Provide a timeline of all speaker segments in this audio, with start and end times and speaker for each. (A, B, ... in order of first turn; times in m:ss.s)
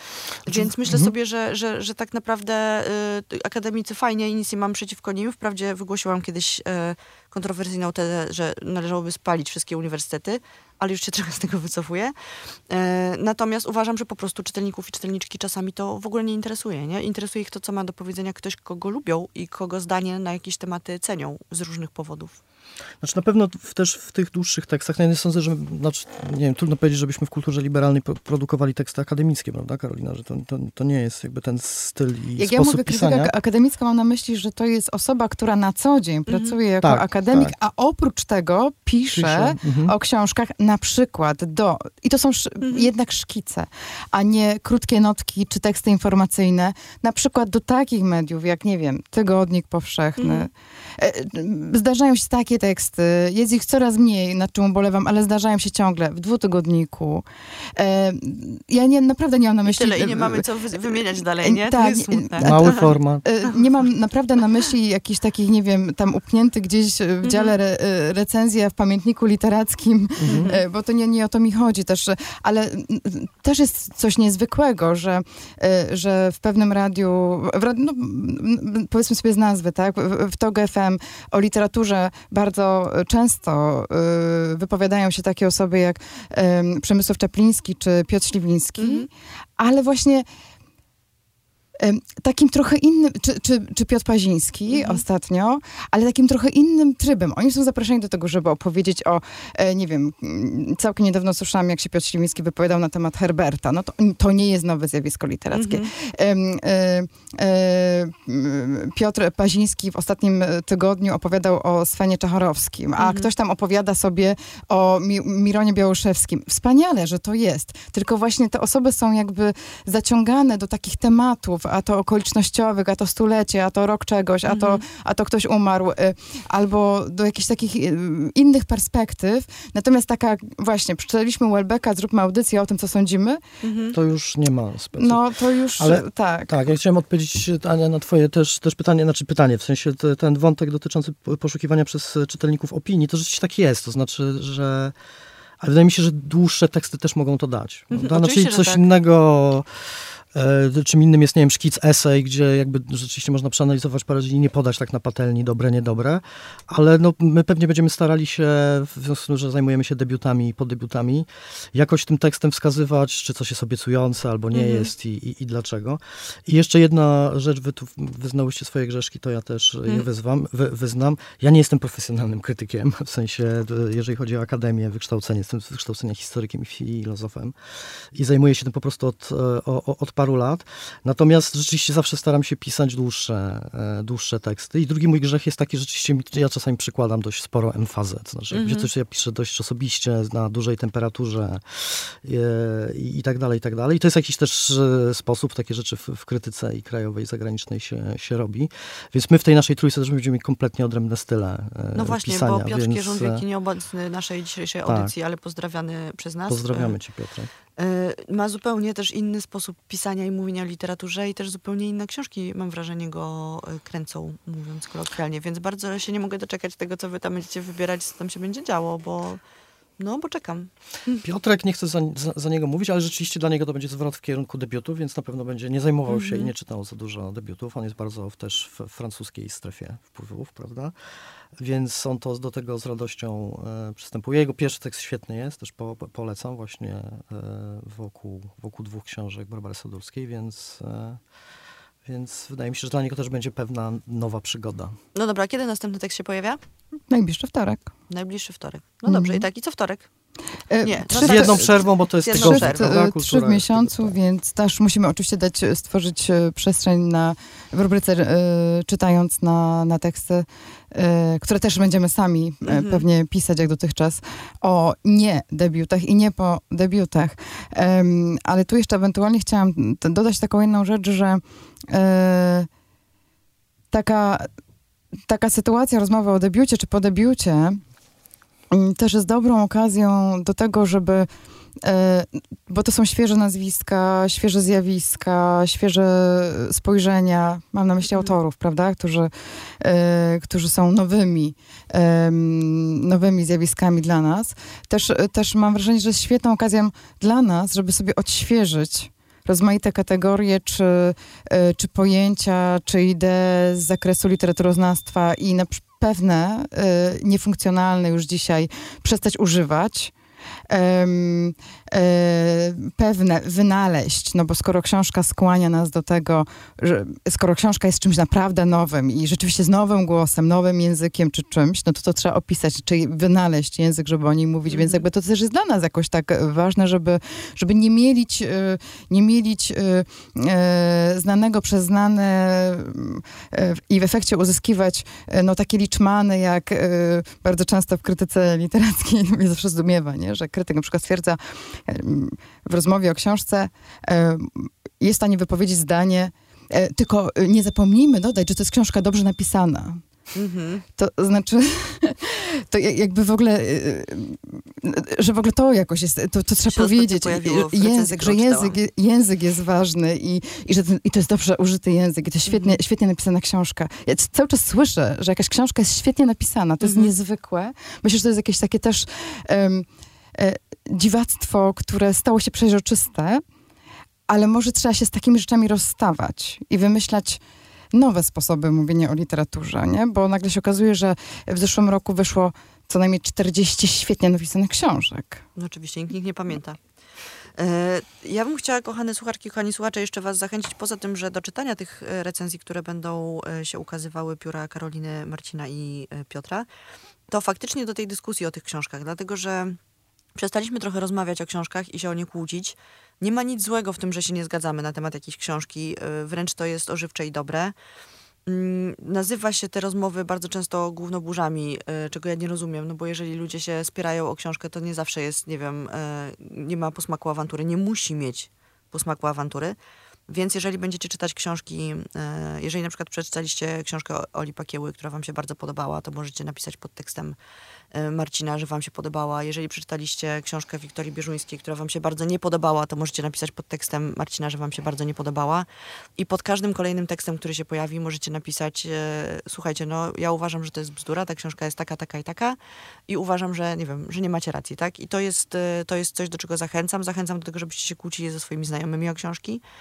0:00.4-0:12.1 A
0:12.7-0:22.4 A
0:23.0-0:33.3 B
0:32.4-0:57.2 C
0:36.3-0:36.6 A
0:36.8-0:37.5 B
0:39.1-0:39.9 B
0:42.6-0:42.9 A
0:50.2-0:50.5 A
0:57.8-1:29.1 C
0:59.6-1:02.8 A
1:02.4-1:03.2 B
1:07.2-1:07.5 A
1:10.2-1:10.5 B
1:10.3-1:10.6 A
1:28.8-1:29.1 A
1:29.6-1:30.2 C
1:31.8-2:13.4 C
1:34.7-1:35.0 A
1:45.5-1:45.9 A
1:53.0-1:53.3 A
2:04.5-2:04.8 A
2:13.6-2:14.0 A
2:13.9-2:15.2 B
2:15.0-2:16.6 C
2:15.8-2:24.9 B
2:25.6-3:23.4 B
2:27.9-2:28.8 A
2:44.5-2:44.9 A
3:08.5-3:08.9 A
3:21.9-3:26.9 A
3:24.8-3:25.1 B
3:26.5-3:27.5 B
3:27.8-3:39.4 A
3:40.0-3:41.2 A
3:41.2-3:50.9 B
3:46.1-3:46.5 A
3:51.6-4:01.2 B
4:02.0-4:04.9 B
4:05.1-4:06.6 A
4:07.1-4:07.9 C
4:08.1-4:10.1 A
4:09.1-4:09.4 C
4:10.7-4:11.8 C
4:10.8-4:12.9 A
4:11.1-4:14.2 B
4:12.3-4:32.7 C
4:22.6-4:23.0 A
4:33.9-4:34.5 C
4:35.3-4:37.8 C
4:38.7-4:41.3 C
4:41.8-5:10.1 C
5:10.7-5:50.0 C
5:24.7-5:25.0 A
5:50.3-5:50.8 A
5:51.0-6:13.4 C
5:56.7-5:58.8 A
6:02.5-6:02.8 A
6:06.8-6:07.1 A
6:14.3-6:17.4 C
6:17.9-6:25.4 C
6:25.6-6:26.8 A
6:27.6-6:36.7 A
6:37.3-6:39.8 A
6:40.3-6:47.7 A
6:48.4-6:59.8 A
7:00.3-7:07.4 A
7:07.9-7:15.6 A
7:16.2-7:22.6 A
7:23.1-7:29.6 A